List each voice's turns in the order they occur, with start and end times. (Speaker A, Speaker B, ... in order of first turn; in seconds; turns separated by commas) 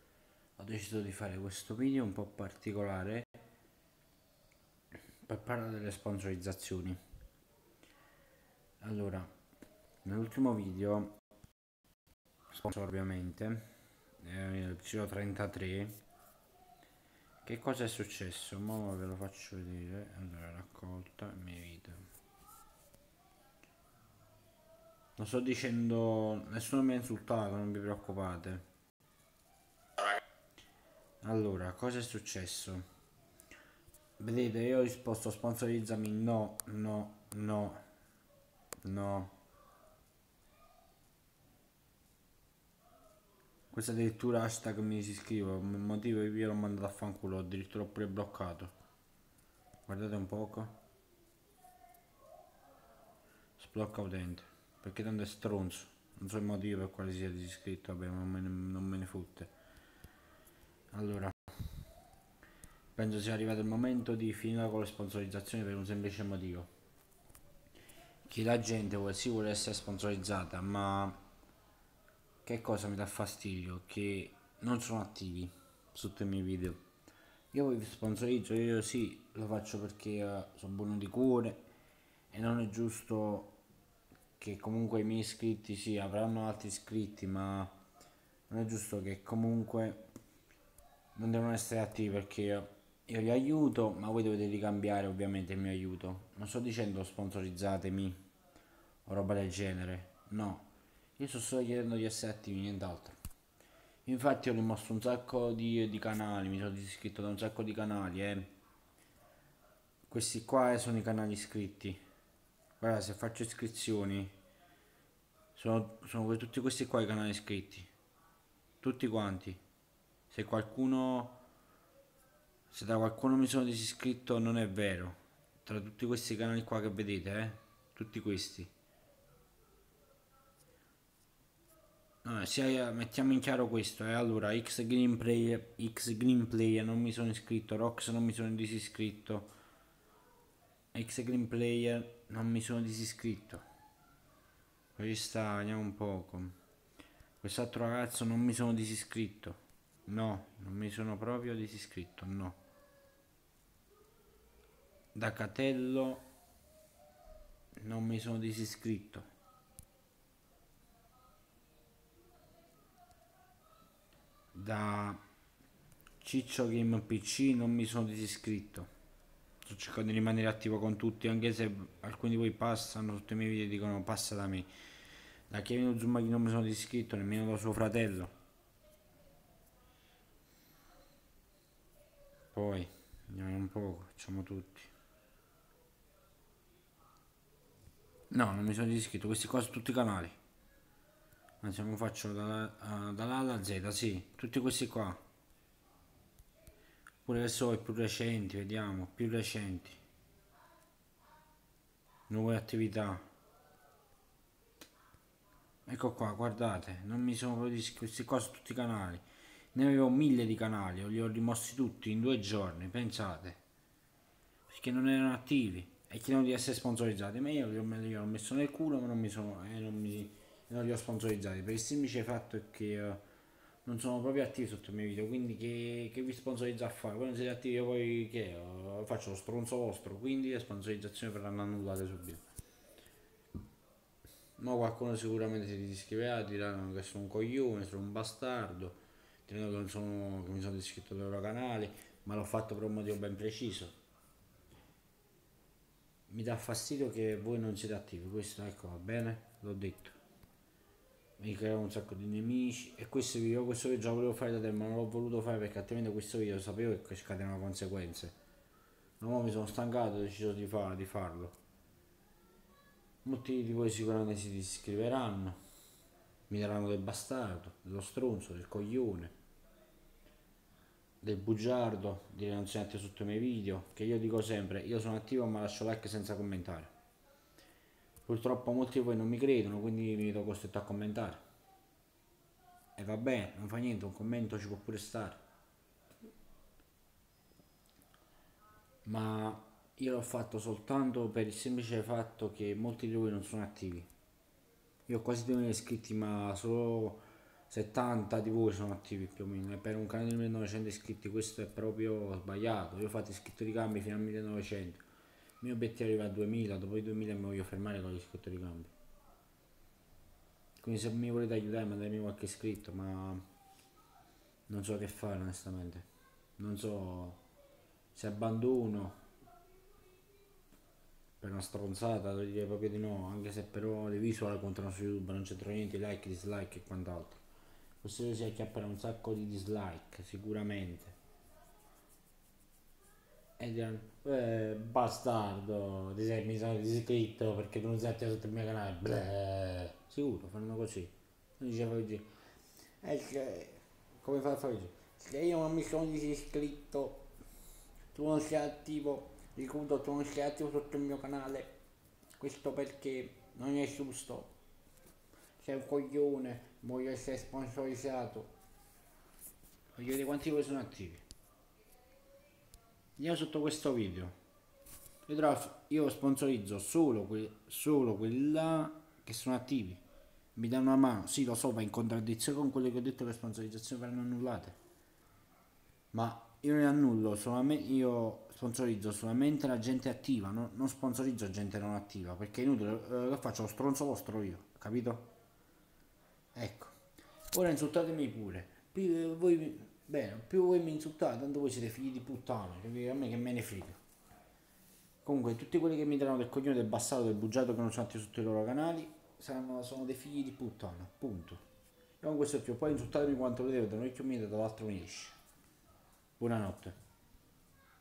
Speaker A: 0.6-3.4, Speaker A: 5.2-7.0, Speaker A: 8.8-9.3, Speaker A: 10.0-11.1, Speaker A: 12.5-13.7, Speaker A: 14.2-16.0, Speaker A: 17.4-22.1, Speaker A: 25.2-28.6, Speaker A: 31.2-32.8, Speaker A: 34.2-37.8, Speaker A: 38.8-39.3, Speaker A: 43.7-48.7, Speaker A: 49.9-50.7, Speaker A: 53.6-59.5, Speaker A: 60.9-61.5, Speaker A: 62.9-66.7, Speaker A: 68.2-71.2, Speaker A: 72.4-76.8, Speaker A: 77.5-81.6, Speaker A: 82.3-83.5, Speaker A: 84.4-87.8, Speaker A: 88.5-90.0, Speaker A: 91.2-98.2, Speaker A: 99.0-103.2, Speaker A: 104.0-108.5, Speaker A: 110.1-112.0, Speaker A: 112.8-114.3, Speaker A: 115.5-117.9, Speaker A: 118.8-119.6, Speaker A: 120.3-121.4, Speaker A: 122.7-128.7, Speaker A: 132.2-139.5, Speaker A: 140.9-143.6, Speaker A: 144.9-146.5, Speaker A: 147.4-152.6, Speaker A: 155.1-156.2, Speaker A: 157.8-159.2, Speaker A: 164.5-165.2, Speaker A: 166.2-168.9, Speaker A: 169.6-174.7, Speaker A: 175.5-178.3, Speaker A: 182.5-184.9, Speaker A: 188.3-190.4, Speaker A: 191.6-195.2, Speaker A: 197.2-200.0, Speaker A: 202.3-203.2, Speaker A: 205.9-213.6, Speaker A: 214.7-223.2, Speaker A: 223.8-232.5, Speaker A: 234.6-243.9, Speaker A: 246.3-250.2, Speaker A: 251.4-258.3, Speaker A: 259.2-261.6, Speaker A: 263.2-265.6, Speaker A: 266.5-269.3, Speaker A: 271.2-276.9, Speaker A: 278.2-281.4, Speaker A: 282.9-285.4, Speaker A: 289.0-294.1, Speaker A: 295.1-305.0, Speaker A: 305.6-308.9, Speaker A: 310.8-313.4, Speaker A: 314.7-316.0, Speaker A: 316.6-317.4, Speaker A: 318.1-319.2, Speaker A: 321.4-327.4, Speaker A: 328.0-331.1, Speaker A: 333.6-342.3, Speaker A: 343.0-347.2, Speaker A: 348.1-351.7, Speaker A: 352.4-354.5, Speaker A: 355.6-358.5, Speaker A: 359.9-361.2, Speaker A: 363.2-364.3, Speaker A: 365.3-370.0, Speaker A: 370.6-374.8, Speaker A: 376.1-385.3, Speaker A: 386.5-386.9, Speaker A: 387.5-394.0, Speaker A: 395.2-401.6, Speaker A: 402.2-405.4, Speaker A: 406.4-406.9